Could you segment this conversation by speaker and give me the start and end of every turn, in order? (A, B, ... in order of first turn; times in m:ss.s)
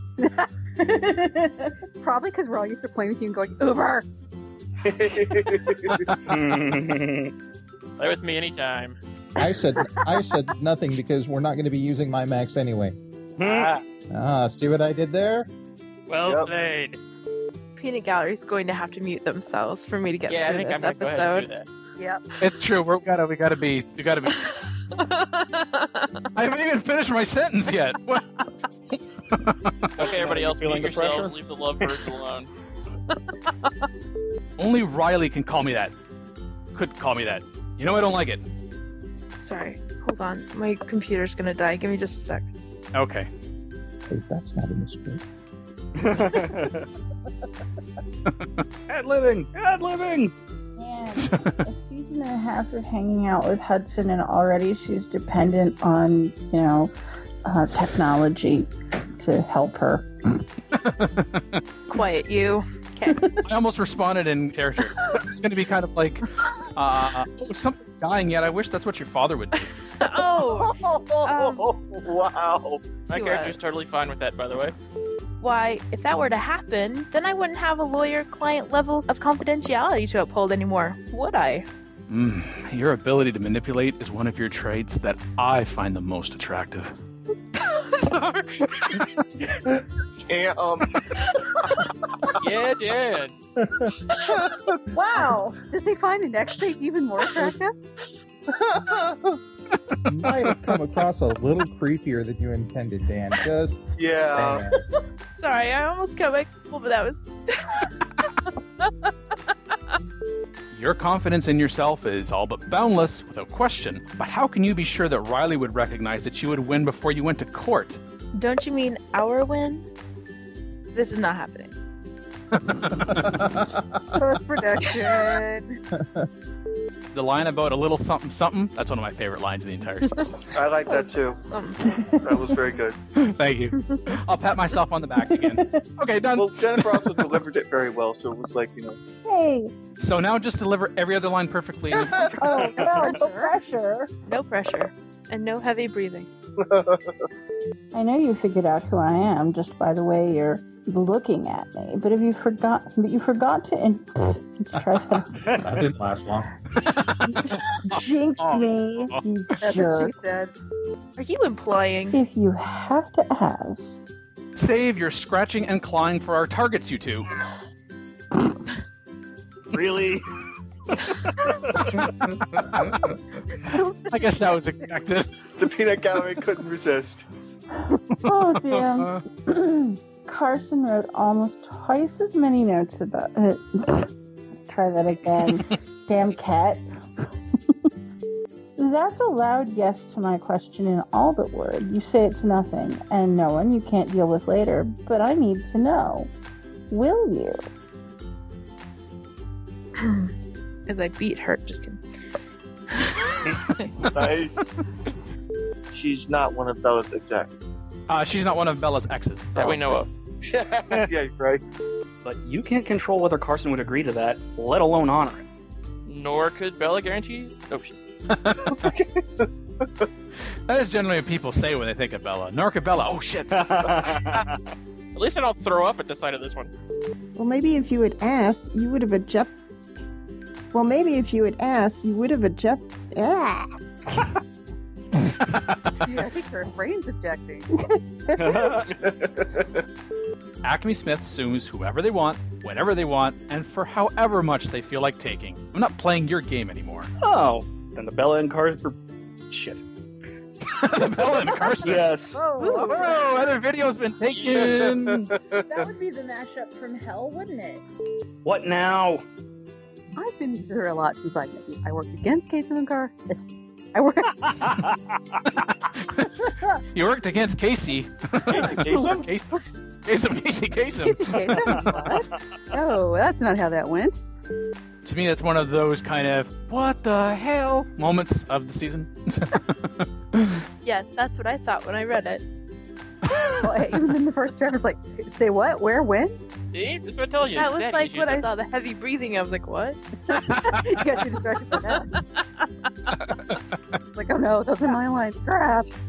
0:00.2-0:01.4 A
0:02.0-0:04.0 A
0:04.8-0:06.4 B
0:06.3-0:07.3 C
0:08.0-0:09.0 D
0:09.4-0:13.0 E
0:09.4-0:10.0 A
0:13.4-0:13.7 C
0:13.4-0:13.8 D
0:14.1-0:15.5 E
0:16.1-0:17.0 D
0:16.2-0:16.5 B
0:17.8-0:21.5 F
0:20.3-0:21.7 D
0:22.4-0:24.4 G
0:24.4-0:26.1 F
0:26.3-0:28.3 G
0:29.3-0:30.0 G
0:30.0-0:32.5 D
0:30.0-0:32.1 C
0:34.6-0:35.9 G
0:36.7-0:38.4 G
0:39.4-0:42.5 F
0:42.9-0:43.3 G
0:44.1-0:45.2 E
0:46.0-0:46.8 C
0:48.3-0:48.6 G
0:48.9-0:50.3 C
0:50.8-0:56.9 H
0:57.4-1:00.1 H
1:00.8-1:01.6 G
1:01.9-1:03.3 F
1:03.5-1:09.7 G
1:10.0-1:11.7 F
1:10.2-1:13.0 B
1:13.0-1:14.8 D
1:13.1-1:13.6 F
1:15.4-1:21.6 F
1:22.1-1:26.9 G
1:30.3-1:30.9 B
1:32.4-1:33.3 D
1:34.2-1:34.8 B
1:35.0-1:35.4 H
1:35.6-1:37.7 A
1:38.5-1:39.4 B
1:40.0-1:44.7 E
1:44.0-1:44.7 B
1:45.3-1:47.8 F
1:50.7-1:58.0 G
1:58.3-1:59.8 F
2:00.9-2:01.7 F
2:02.7-2:03.2 G
2:03.0-2:03.8 E
2:04.1-2:05.8 A
2:06.0-2:06.3 E
2:07.1-2:10.4 G
2:10.5-2:11.4 B
2:10.9-2:12.0 F
2:12.0-2:13.0 B
2:13.2-2:17.2 G
2:15.4-2:15.8 H
2:16.4-2:19.0 B
2:19.2-2:19.7 H
2:20.0-2:22.6 G
2:22.0-2:22.4 B
2:22.2-2:24.1 H
2:22.6-2:23.6 A
2:22.6-2:22.9 C
2:24.3-2:26.3 F
2:26.6-2:27.2 B
2:27.9-2:35.6 H
2:35.5-2:36.5 E
2:37.8-2:40.1 H
2:38.4-2:39.2 G
2:39.6-2:40.5 A
2:41.2-2:42.2 F
2:42.1-2:44.0 H
2:44.6-2:47.3 G
2:49.7-2:50.3 C
2:51.2-2:52.0 C
2:52.5-2:53.0 G
2:53.6-2:54.2 A
2:54.1-2:55.4 G
2:55.5-2:57.2 B
2:58.2-3:04.1 H
2:58.5-2:59.2 G
3:04.6-3:06.8 H
3:08.8-3:16.3 H
3:16.9-3:17.6 H
3:20.0-3:20.3 F
3:20.9-3:22.0 F
3:22.9-3:23.8 F
3:24.0-3:24.7 B
3:25.9-3:27.6 B
3:28.1-3:29.7 G
3:29.5-3:31.6 B
3:29.6-3:30.1 D
3:32.2-3:35.4 C
3:36.0-3:37.9 D
3:38.3-3:38.9 G
3:38.6-3:40.1 B
3:40.7-3:44.1 G
3:43.5-3:44.7 C
3:45.1-3:46.7 D
3:47.4-3:49.5 I
3:50.7-3:53.7 I
3:56.0-3:57.7 A
3:58.4-3:58.9 C
3:58.9-3:59.8 B
4:00.6-4:07.1 G
4:07.2-4:09.8 C
4:10.6-4:12.1 G
4:11.8-4:12.4 C
4:12.3-4:13.3 H
4:12.4-4:13.2 A
4:12.8-4:15.3 G
4:14.3-4:15.0 D
4:14.6-4:14.9 B
4:15.5-4:17.8 H
4:18.4-4:19.2 C
4:20.1-4:23.4 A
4:23.9-4:24.8 A
4:25.6-4:31.5 G
4:28.5-4:29.3 B
4:31.0-4:34.2 A
4:31.7-4:32.1 C
4:35.0-4:40.6 G
4:40.8-4:42.4 F
4:43.6-4:46.4 A
4:46.7-4:48.5 D
4:47.5-4:50.0 F
4:50.3-4:52.1 A
4:54.1-4:55.9 A